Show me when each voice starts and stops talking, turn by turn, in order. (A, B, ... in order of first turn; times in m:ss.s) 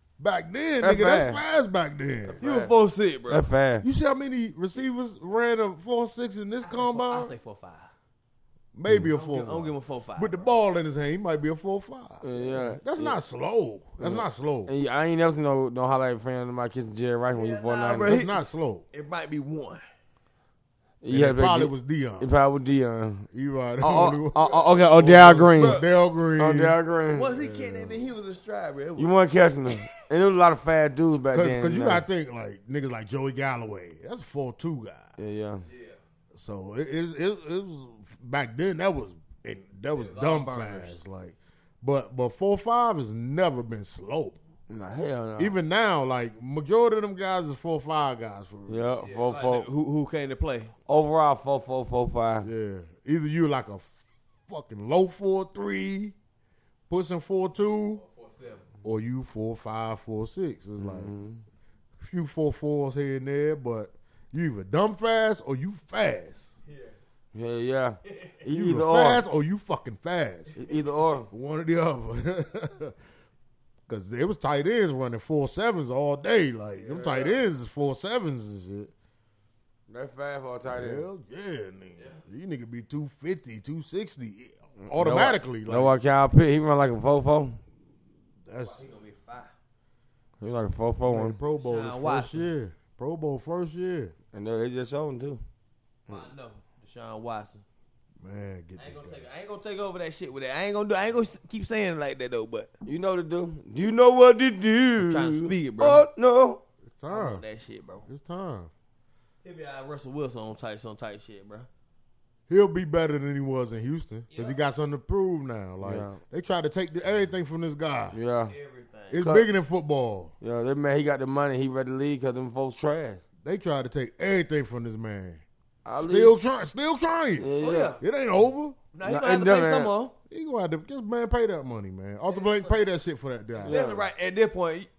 0:00.2-0:02.4 A
0:00.8-0:01.4 B
0:02.3-0:02.7 B
0:02.4-0:03.4 C
0:03.3-0:03.8 B
0:03.8-0:07.3 A
0:06.6-0:07.9 C
0:08.7-0:14.7 A
0:09.1-0:10.5 C
0:12.2-0:13.2 B
0:14.0-0:18.3 B
0:17.3-0:18.4 C
0:18.1-0:18.8 A
0:18.9-0:19.8 C
0:21.0-0:23.3 B
0:21.1-0:22.3 A
0:23.3-0:26.8 A
0:23.8-0:25.8 B
0:25.5-0:25.9 C
0:26.4-0:27.3 B
0:27.1-0:29.2 C
0:27.3-0:28.1 A
0:29.0-0:32.0 B
0:31.3-0:35.1 A
0:35.2-0:35.7 B
0:35.7-0:36.0 C
0:36.3-0:44.4 A
0:39.9-0:41.0 C
0:44.7-0:45.6 B
0:45.4-0:48.9 A
0:48.7-0:49.7 B
0:49.0-0:50.7 C
0:50.9-0:52.5 B
0:52.4-0:56.2 A
0:56.9-0:58.0 A
0:58.0-0:58.7 C
0:58.8-1:01.1 A
1:00.8-1:01.4 B
1:02.0-1:06.5 A
1:06.7-1:07.0 C
1:07.3-1:09.2 B
1:08.0-1:08.4 C
1:08.5-1:10.6 A
1:10.6-1:10.8 C
1:10.6-1:11.3 B
1:11.3-1:12.9 A
1:13.9-1:18.9 A
1:16.8-1:17.4 C
1:19.9-1:21.0 B
1:20.7-1:26.0 A
1:24.8-1:27.6 B
1:28.5-1:28.8 A
1:28.6-1:29.5 C
1:30.4-1:31.4 B
1:31.1-1:34.1 A
1:31.6-1:32.5 C
1:34.3-1:35.4 B
1:36.1-1:37.6 C
1:38.2-1:39.2 A
1:38.8-1:42.7 C
1:42.8-1:46.6 B
1:45.0-1:46.1 C
1:46.9-1:47.4 A
1:47.1-1:48.1 C
1:48.1-1:48.7 A
1:49.4-1:51.7 C
1:52.5-1:58.2 A
1:55.8-1:56.2 B
1:58.1-1:58.5 B
1:58.5-1:59.3 C
1:59.1-2:00.3 A
1:59.2-1:59.5 B
2:00.4-2:03.2 B
2:03.4-2:05.4 A
2:05.8-2:06.4 B
2:06.0-2:08.8 A
2:07.4-2:08.0 B
2:07.6-2:08.0 C
2:08.9-2:10.1 C
2:09.0-2:09.9 B
2:10.3-2:13.8 A
2:12.3-2:12.9 C
2:13.6-2:14.9 C
2:13.6-2:14.1 B